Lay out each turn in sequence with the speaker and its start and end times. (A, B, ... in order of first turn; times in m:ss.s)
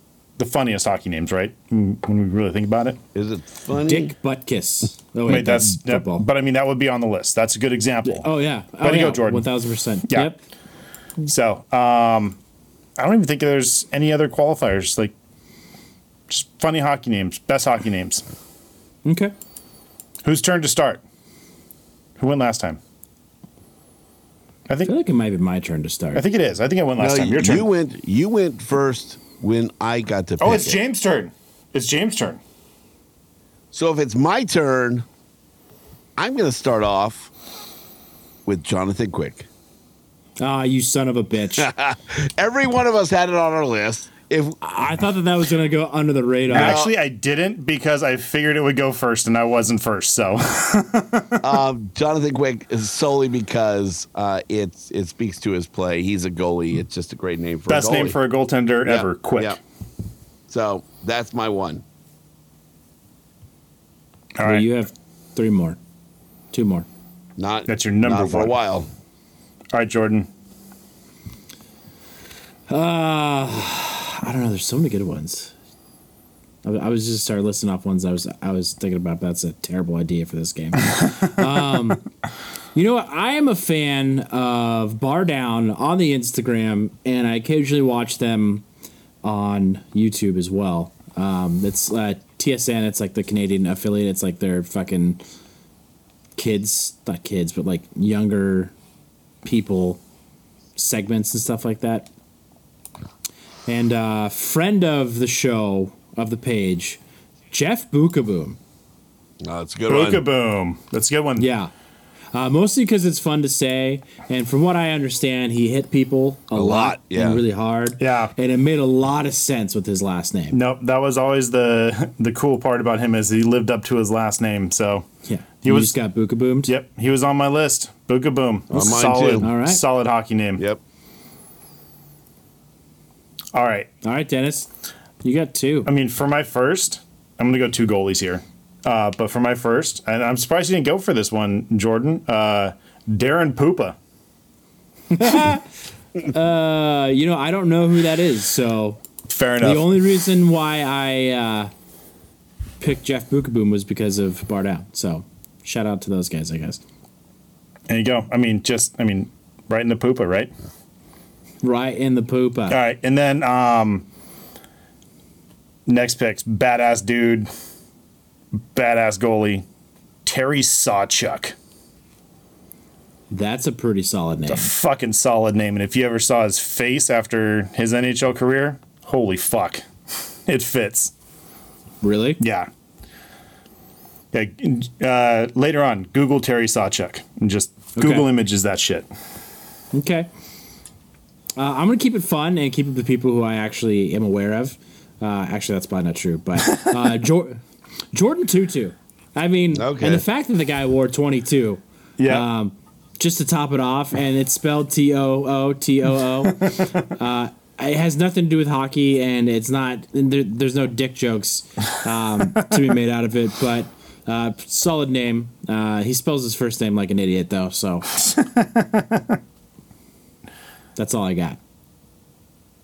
0:00.4-0:03.0 A
0:03.2-0:04.1 B
0:03.8-0:06.3 C
0:05.3-0:08.3 A
0:08.1-0:10.4 C
0:08.8-0:09.5 A
0:10.1-0:10.4 A
0:11.2-0:12.4 A
0:13.0-0:15.1 A
0:16.3-0:18.2 A
0:19.0-0:19.3 C
0:20.2-0:21.0 A
0:22.2-0:22.8 A
0:24.8-0:26.2 C
0:26.2-0:27.7 A
0:27.0-0:30.8 B
0:30.4-0:32.4 A
0:33.7-0:35.0 B
0:36.2-0:37.3 B
0:38.5-0:39.5 B
0:40.4-0:41.7 C
0:41.6-0:44.6 B
0:44.6-0:46.8 C
0:46.5-0:46.9 B
0:46.5-0:51.4 A
0:51.4-0:58.2 B
0:57.7-0:59.6 A
0:58.9-0:59.6 B
1:00.5-1:01.8 B
1:04.4-1:04.8 A
1:04.4-1:05.8 C
1:06.5-1:06.9 C
1:07.4-1:08.9 B
1:07.7-1:08.5 A
1:09.7-1:10.3 A
1:12.7-1:15.5 C
1:16.6-1:22.1 C
1:22.7-1:28.6 C
1:29.2-1:35.2 C
1:36.4-1:38.7 C
1:39.4-1:40.0 C
1:40.8-1:42.1 C
1:43.7-1:47.0 C
1:47.5-1:48.6 C
1:49.4-1:50.2 B
1:49.9-1:51.5 A
1:51.4-1:51.7 C
1:52.3-2:00.6 C
1:56.5-1:57.4 B
1:58.0-1:58.3 A
2:00.5-2:05.1 A
2:05.3-2:06.7 C
2:05.6-2:06.0 A
2:06.7-2:10.6 A
2:08.7-2:09.5 B
2:09.4-2:09.8 C
2:13.5-2:13.9 A
2:14.0-2:14.7 C
2:15.2-2:15.9 C
2:15.9-2:24.0 A
2:25.1-2:25.7 C
2:26.2-2:29.0 C
2:29.3-2:30.0 A
2:29.6-2:31.7 C
2:32.8-2:36.8 C
2:37.9-2:40.5 A
2:41.6-2:42.8 C
2:42.7-2:44.1 A
2:45.9-2:47.5 A
2:48.6-2:49.6 A
2:50.3-2:51.6 A
2:53.3-2:54.7 C
2:54.5-2:59.8 A
3:00.5-3:01.1 A
3:02.0-3:02.4 C
3:02.4-3:02.7 A
3:04.3-3:09.1 A
3:08.0-3:08.3 C
3:09.9-3:10.3 C
3:11.6-3:17.6 C
3:18.1-3:38.1 C
3:19.7-3:20.2 B
3:22.2-3:22.5 A
3:38.2-3:39.3 A
3:41.0-3:41.6 C